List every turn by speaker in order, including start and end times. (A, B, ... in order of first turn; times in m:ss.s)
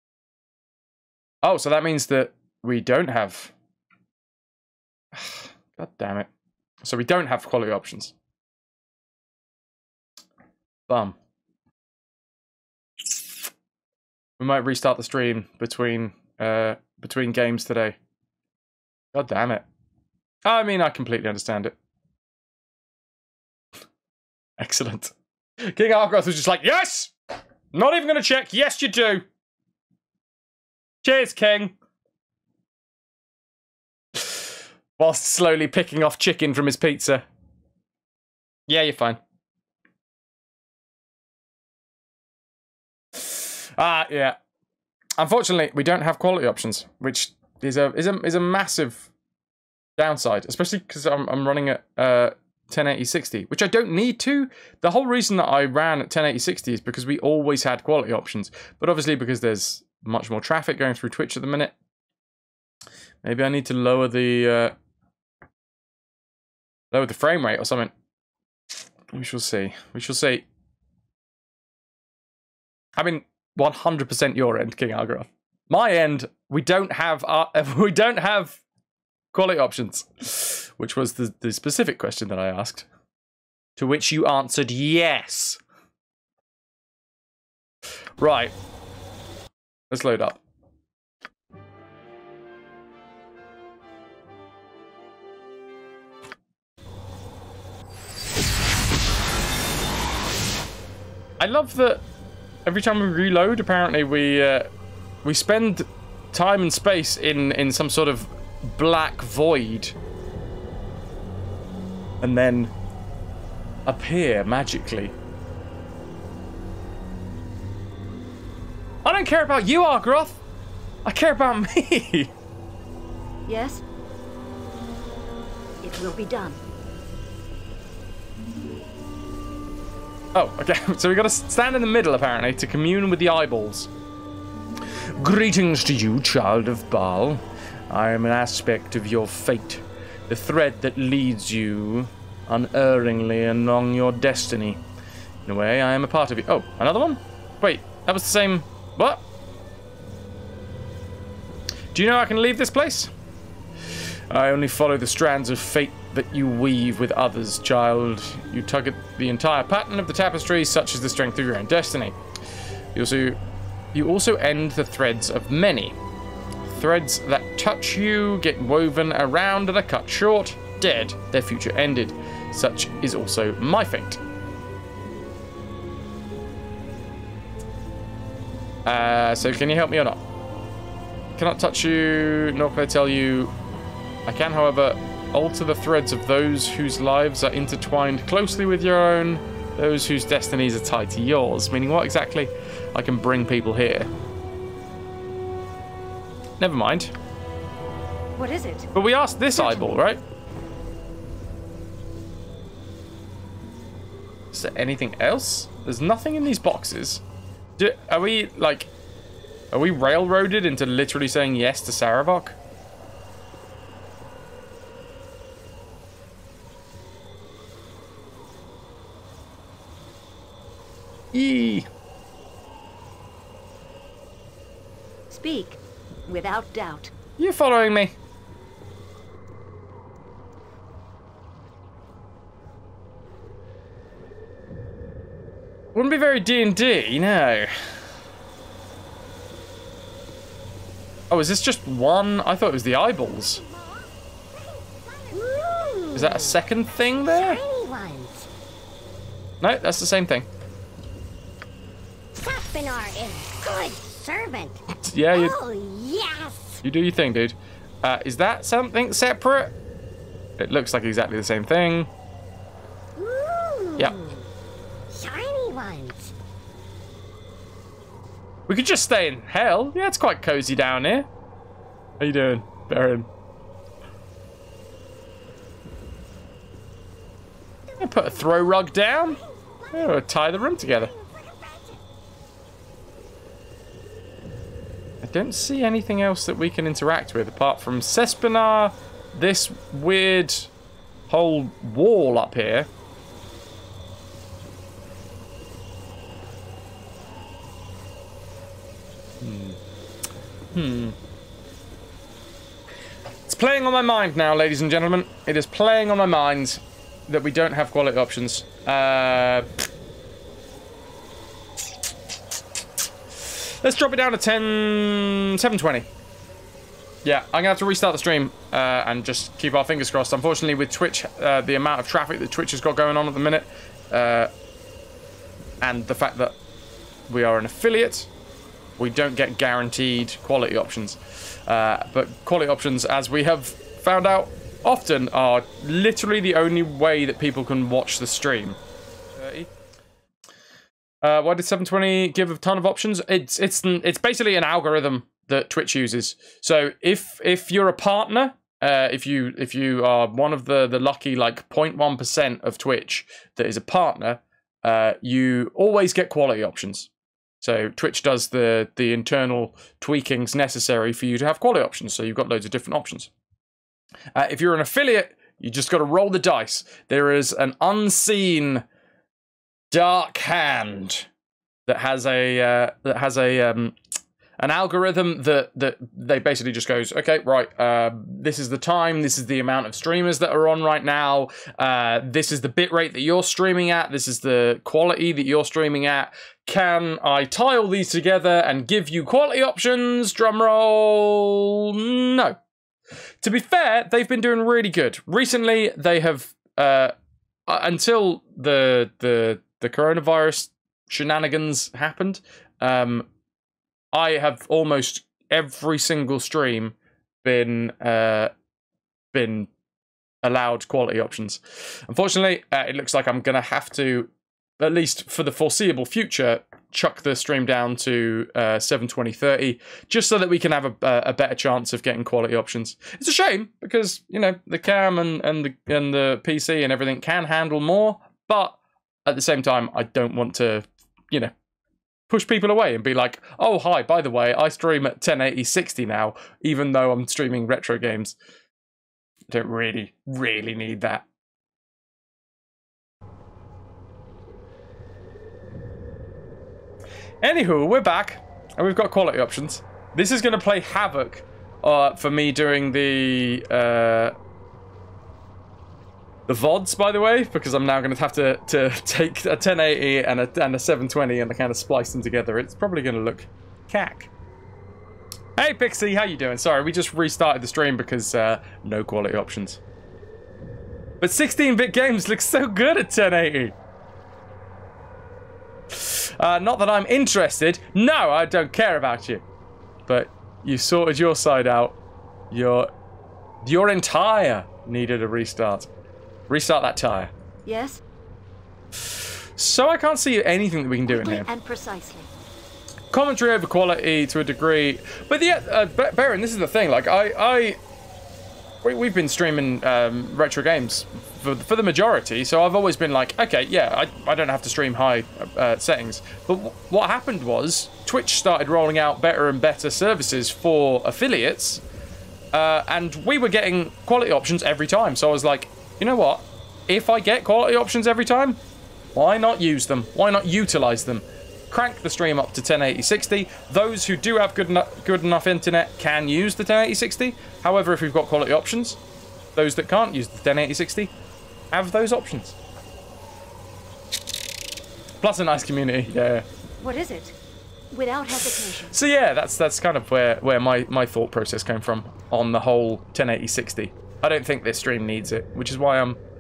0:01.4-0:03.5 A
0:05.1-0:06.3 A
0:06.8-0:08.1 A
0:10.9-0:11.2 A
0:14.4-0:18.0 A
0:19.1-0:19.6 A
0:20.4-0:21.8 A
0:24.6-0:27.1 A
0:27.7-0:29.2 A
0:31.0-0:31.8 A
0:34.2-0:34.4 A
0:35.0-0:37.2 A
0:38.7-0:39.2 A
0:43.1-0:44.4 A
0:45.2-0:49.1 A
0:50.0-1:01.7 A
1:03.2-1:04.7 A
1:06.9-1:07.9 A
1:09.1-1:10.4 A
1:13.0-1:18.6 A
1:19.3-1:22.9 A
1:23.8-1:25.6 A
1:28.2-1:28.5 A
1:29.9-1:30.4 A
1:41.4-1:42.0 A
1:42.7-1:44.7 A
1:45.2-1:49.9 A
1:52.2-1:52.7 A
1:53.9-1:55.1 A
1:59.0-2:00.4 A
2:01.0-2:02.3 A
2:03.5-2:03.8 B
2:05.8-2:06.6 B
2:10.3-2:13.9 A
2:15.2-2:24.8 A
2:25.5-2:29.2 A
2:31.9-2:33.1 A
2:34.3-2:42.2 A
2:42.9-2:43.4 A
2:43.9-2:46.0 A
2:46.7-2:54.2 A
2:58.8-3:00.2 A
3:01.4-3:03.5 A
3:04.3-3:14.1 A
3:16.6-3:17.1 A
3:18.4-3:18.9 B
3:18.9-3:20.2 A
3:19.6-3:20.0 B
3:24.5-3:27.2 A
3:27.8-3:28.9 A
3:29.7-3:32.6 A
3:41.3-3:41.9 A
3:45.3-3:47.1 B
3:47.4-3:48.1 A
3:56.0-3:57.7 A
4:01.3-4:03.6 A
4:04.6-4:08.5 C
4:06.1-4:07.6 A
4:09.6-4:10.5 A
4:12.4-4:16.8 C
4:15.0-4:15.6 A
4:16.8-4:19.7 A
4:20.6-4:22.1 A
4:23.2-4:24.5 C
4:25.1-4:26.3 C
4:28.7-4:31.3 A
4:32.2-4:33.3 A
4:37.9-4:38.8 C
4:38.0-4:39.4 A
4:39.4-4:40.2 C
4:39.9-4:41.1 A
4:41.0-4:42.0 C
4:45.2-4:50.7 A
4:51.3-4:52.9 A
4:59.4-4:59.8 A
5:00.7-5:01.2 A
5:03.5-5:09.7 A
5:13.4-5:16.1 A
5:17.2-5:24.5 A
5:25.8-5:26.6 A
5:27.3-5:28.3 A
5:29.0-5:38.8 A
5:39.3-5:39.7 A
5:41.2-5:57.1 A
5:57.6-6:03.3 A
6:04.4-6:08.8 A
6:09.9-6:11.3 A
6:11.9-6:14.0 A
6:14.6-6:32.6 A
6:33.4-6:37.1 A
6:37.7-6:43.3 A
6:44.1-6:48.5 A
6:49.3-6:49.7 A
6:50.4-7:11.5 A
7:12.3-7:18.4 A
7:19.5-7:21.2 A
7:27.4-7:34.4 A
7:36.5-7:44.3 A
7:45.6-7:49.8 A
7:51.2-7:53.8 A
7:55.9-7:59.4 A
8:00.1-8:02.0 A
8:02.5-8:02.9 A
8:03.6-8:05.9 A
8:06.5-8:07.3 A
8:07.6-8:08.0 B
8:09.0-8:11.5 A
8:11.1-8:12.3 B
8:13.1-8:17.8 A
8:18.8-8:31.8 A
8:32.5-8:38.6 A
8:39.2-8:49.0 A
8:49.6-8:51.1 A
8:51.7-8:52.6 A
8:55.2-8:56.4 A
8:56.8-8:57.4 B
8:57.9-8:58.9 B
8:58.9-9:06.2 A